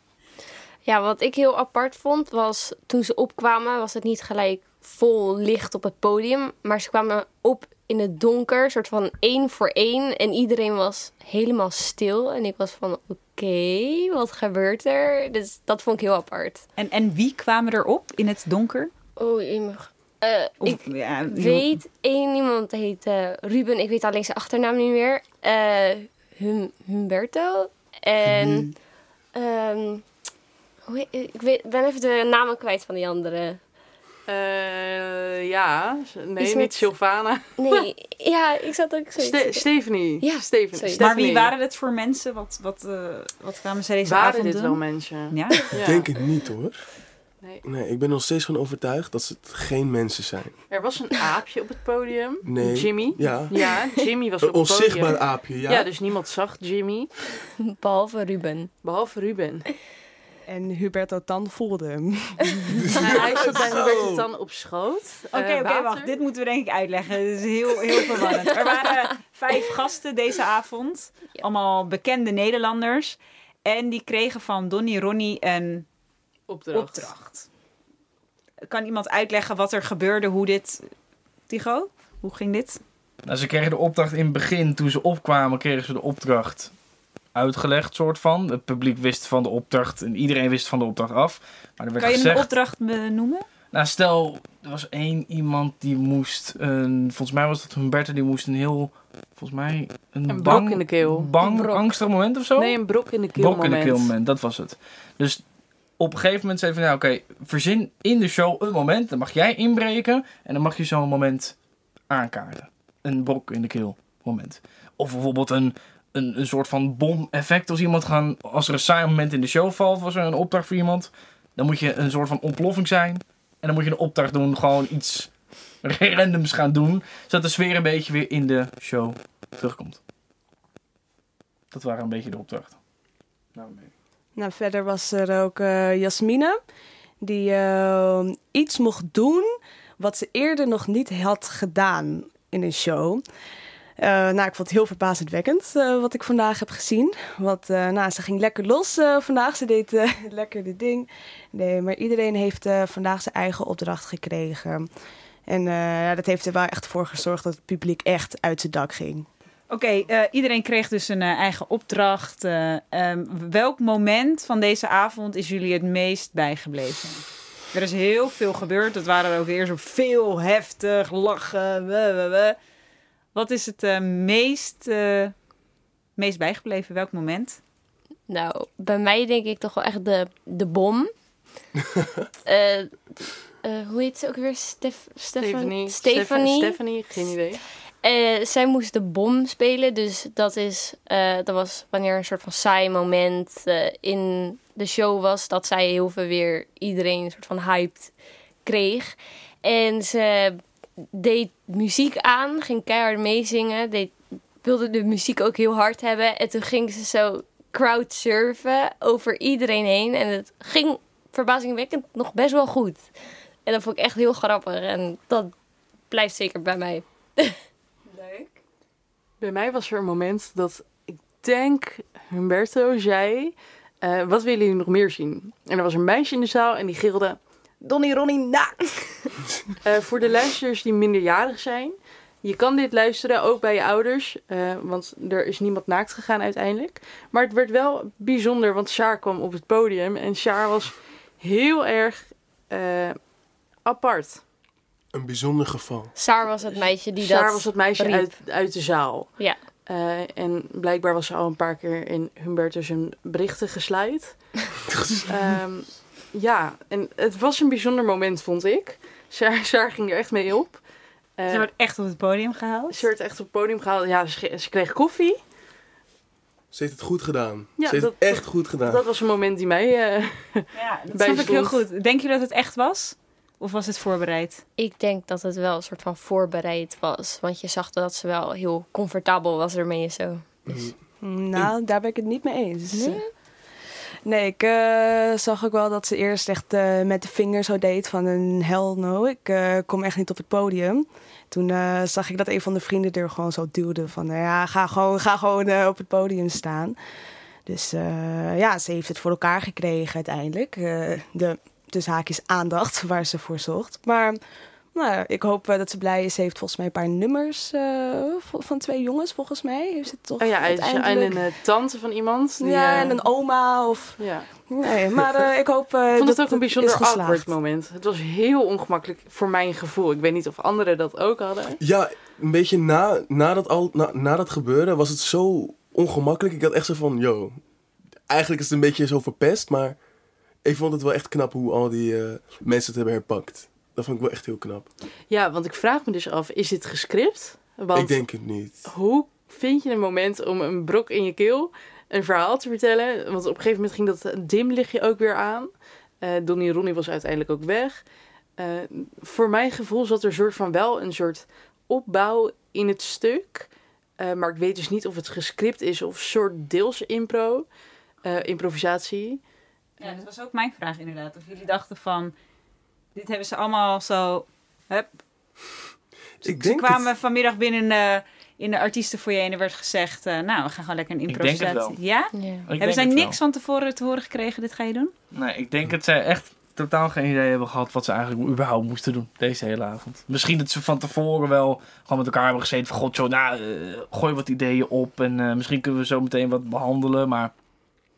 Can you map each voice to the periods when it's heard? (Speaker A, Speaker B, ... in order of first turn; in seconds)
Speaker A: 0.8-16.6, 19.2-28.7, 29.4-30.1, 30.9-33.6, 36.4-36.9, 37.6-41.1, 57.7-58.7, 101.4-101.9, 178.3-181.1, 182.5-186.8, 188.0-198.1, 198.7-213.1, 213.7-215.5, 216.1-217.6, 218.1-218.5, 246.2-248.3, 274.8-280.9, 282.9-283.2, 372.4-372.7
Speaker B: 16.8-18.9, 20.6-21.8, 41.0-45.7, 65.3-75.9, 76.7-77.5, 78.7-80.8, 81.5-82.8, 92.0-93.5, 159.7-172.6, 173.3-175.3, 176.2-177.6, 261.5-263.0, 270.7-274.6, 360.0-362.3, 363.1-365.1, 366.4-375.1
Speaker C: 34.3-37.9, 39.2-41.5, 44.0-46.1, 50.7-57.1, 58.8-59.7, 63.0-66.2, 76.5-77.1, 100.3-101.4, 102.6-104.1, 185.4-187.6, 219.4-227.4, 229.8-243.2, 243.8-244.4, 246.8-254.4, 255.3-260.8, 261.4-261.7, 262.9-265.4, 267.8-271.9, 310.4-313.2, 314.2-314.5, 316.1-321.8, 335.3-338.3, 338.9-345.7, 346.2-348.0, 348.6-357.7, 358.2-359.4
Speaker D: 45.8-46.9, 47.6-50.6, 52.4-53.6, 54.4-55.9, 63.0-64.3, 245.1-246.1, 254.9-255.3, 266.7-269.1, 321.8-327.6, 328.3-330.0, 330.6-334.9, 337.9-338.9, 366.4-367.1
Speaker E: 60.5-63.4, 134.4-136.6, 137.2-143.2, 144.0-154.9, 155.5-159.3, 227.8-229.0, 281.2-283.2, 284.2-297.0, 297.7-304.4, 304.9-311.4, 312.6-317.5
Speaker F: 83.2-86.7, 87.3-92.5, 93.7-102.8, 103.3-105.4, 106.0-111.6, 112.1-125.3, 125.8-130.0, 131.7-132.8, 133.6-133.9, 371.3-372.0, 372.7-373.4, 375.3-387.5